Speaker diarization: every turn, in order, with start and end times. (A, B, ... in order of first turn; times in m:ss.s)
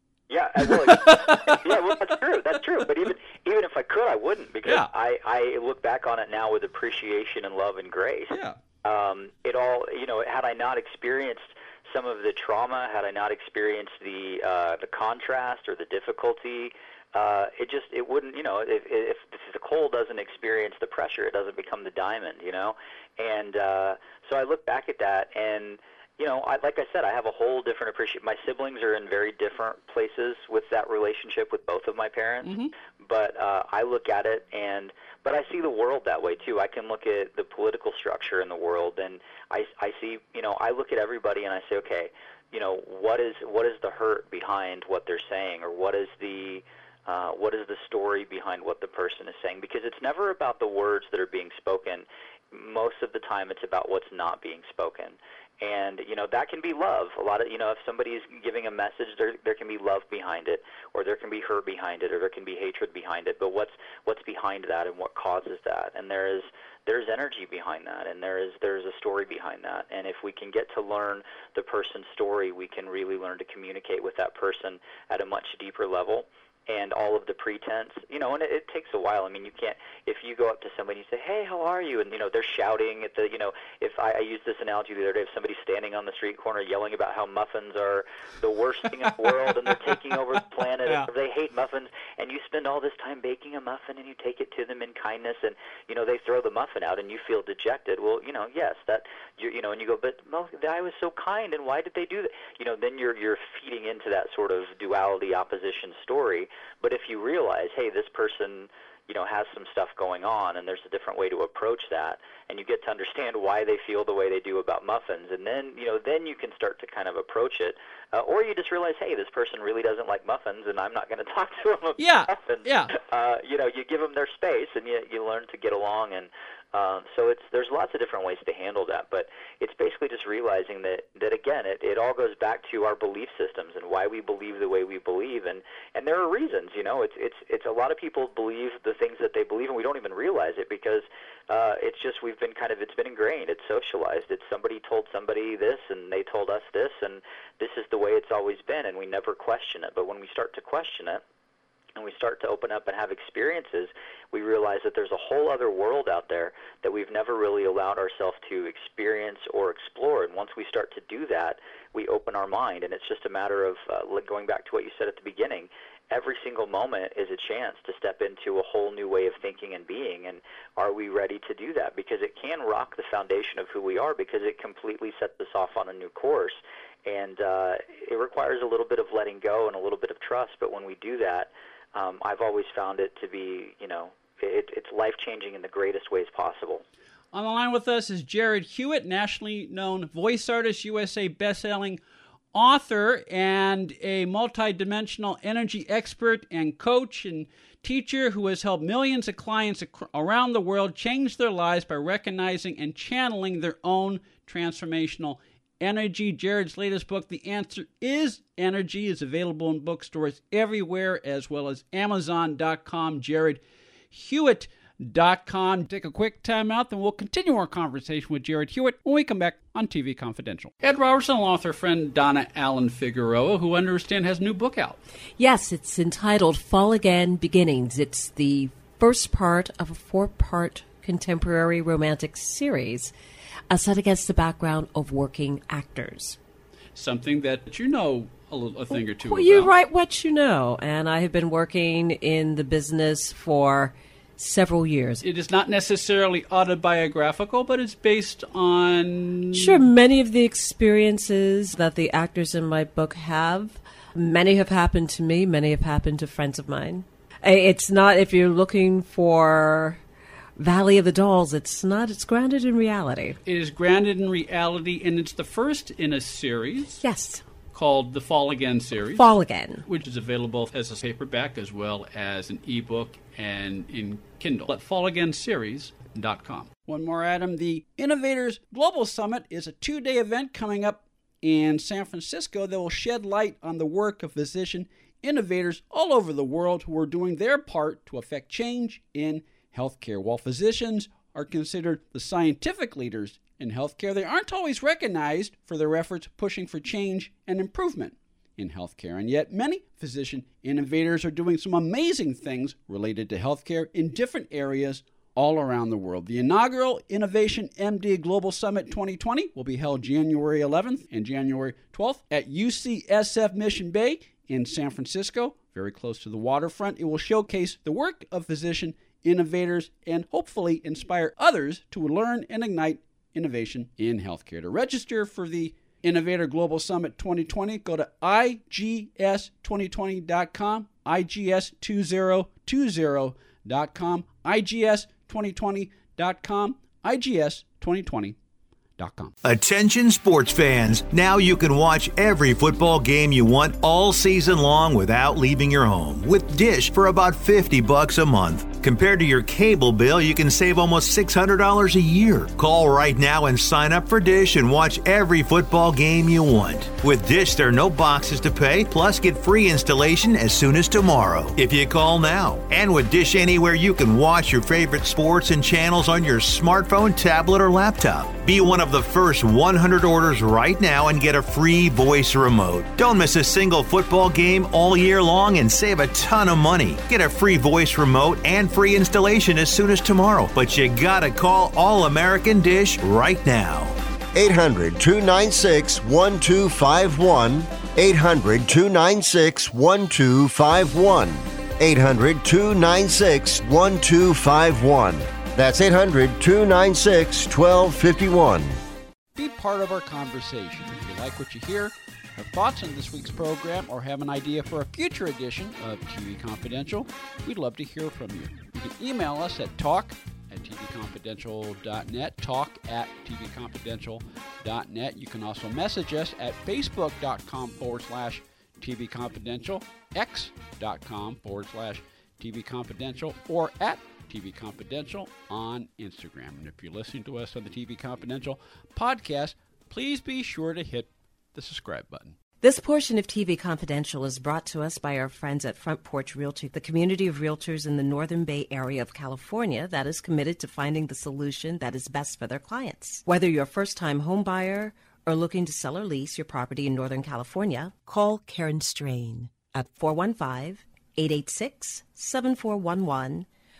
0:00.3-2:31.2 A
0:00.6-0:01.5 B
0:08.3-0:08.6 B
0:32.4-0:32.7 B
2:02.0-2:02.9 B
2:32.0-3:06.8 A
3:07.3-3:12.0 B
3:12.5-3:33.6 B
3:34.1-3:45.0 B
3:45.4-3:53.1 C
3:53.7-3:56.4 C
3:56.9-3:59.7 B
3:58.9-4:05.2 C
4:05.2-4:09.9 B
4:09.5-4:20.0 C
4:20.6-4:23.4 C
4:23.4-4:27.0 B
4:27.0-4:27.4 C
4:27.7-4:29.3 B
4:29.1-4:29.8 C
4:29.8-5:38.4 B
5:39.0-5:39.3 B
5:39.4-6:23.9 D
6:24.3-6:38.8 E
6:39.3-7:12.4 B
7:12.6-7:33.5 C